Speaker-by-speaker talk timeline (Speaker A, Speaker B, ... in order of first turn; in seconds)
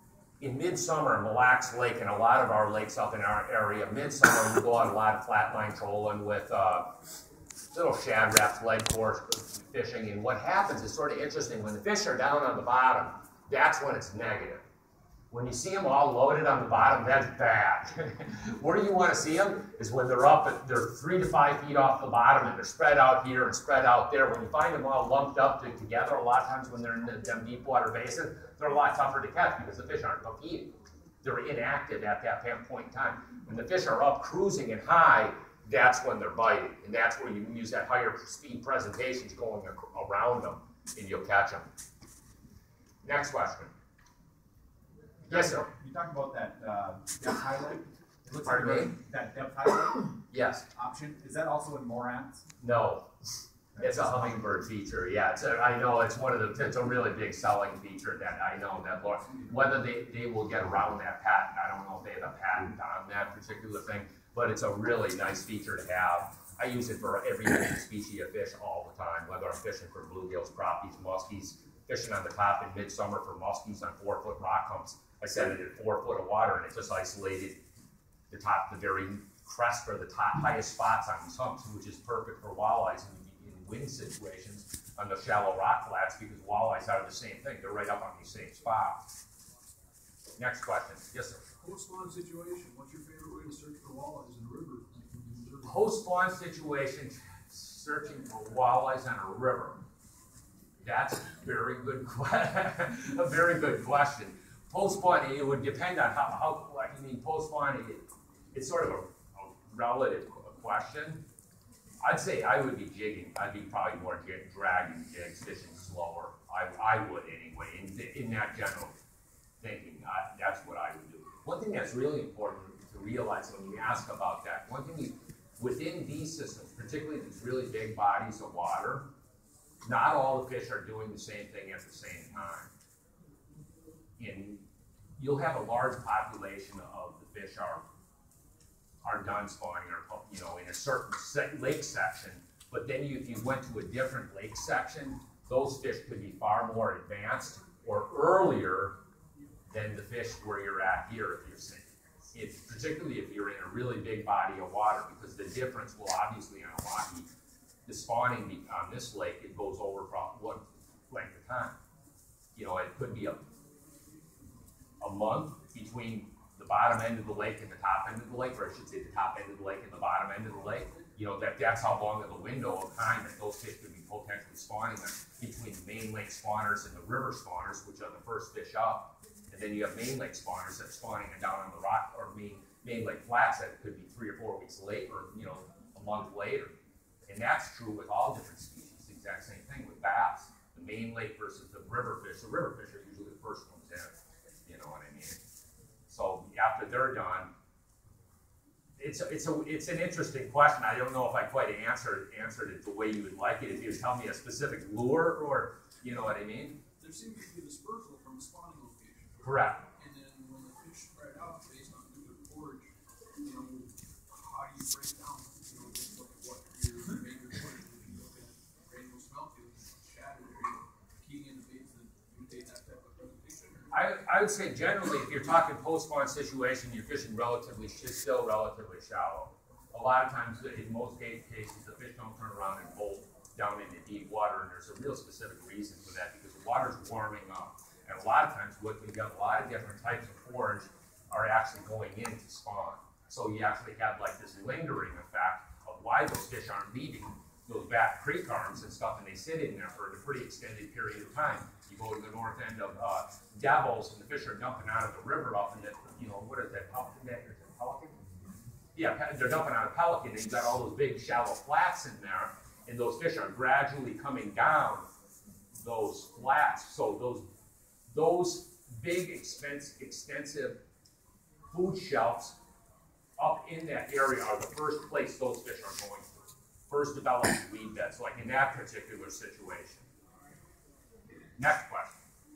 Speaker A: 0.4-6.9, 7.7-14.6, 15.3-30.7, 31.2-41.7, 43.0-43.7, 45.3-45.7, 48.4-48.9, 50.3-50.6, 52.6-53.0, 53.8-77.6, 78.3-89.0, 90.4-91.5, 95.6-99.8, 100.8-111.2, 112.0-118.9, 119.6-129.0, 129.8-132.7, 134.2-134.6, 135.2-137.8, 139.0-148.9, 149.7-157.3, 157.8-161.7, 162.5-163.4, 165.0-186.7, 187.3-194.1, 194.6-195.4, 196.1-197.5, 199.0-206.8, 209.4-209.8, 223.9-258.1, 258.9-265.1, 265.8-267.4, 268.1-270.8, 271.7-272.6, 273.4-280.1, 281.6-282.2
Speaker B: 45.3-50.1, 50.7-52.4, 53.8-54.3
Speaker C: 91.6-95.8, 207.0-212.9, 213.4-223.9